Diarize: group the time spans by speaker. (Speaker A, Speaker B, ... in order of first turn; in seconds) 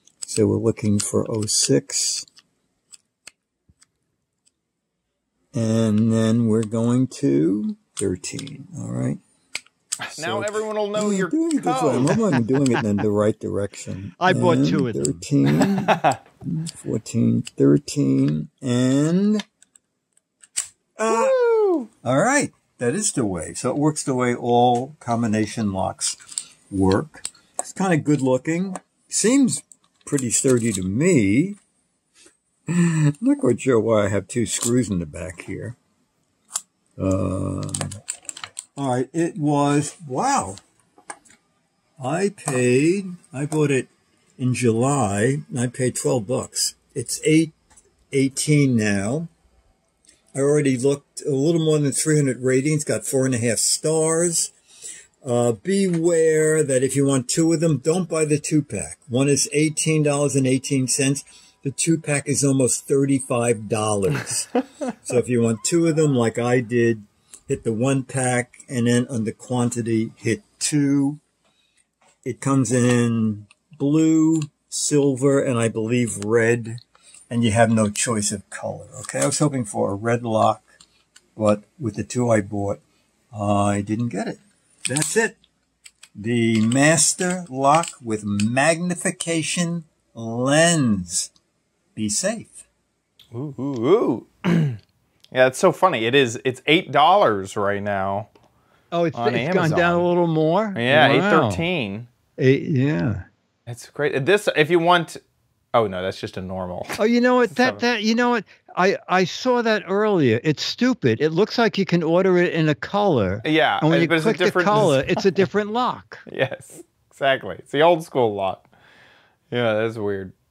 Speaker A: 0.2-2.2, 5.5-9.2, 10.1-19.4, 21.0-21.4, 22.0-26.2, 26.7-31.6, 32.7-35.8, 37.0-37.9, 38.8-40.6, 42.0-47.5, 48.1-49.3, 50.3-54.5, 55.2-71.2, 72.2-80.7, 81.3-82.8, 83.3-85.4, 86.2-91.3, 92.0-92.6
Speaker B: 10.1-12.2, 15.9-16.1, 21.1-21.9, 93.3-94.8, 95.3-98.3, 99.1-100.1, 100.8-102.1, 103.7-105.2, 105.7-107.0, 107.5-107.8, 113.4-115.4, 116.3-118.6, 119.5-120.3
Speaker C: 14.2-15.2, 98.9-101.6, 102.4-103.2, 107.0-116.2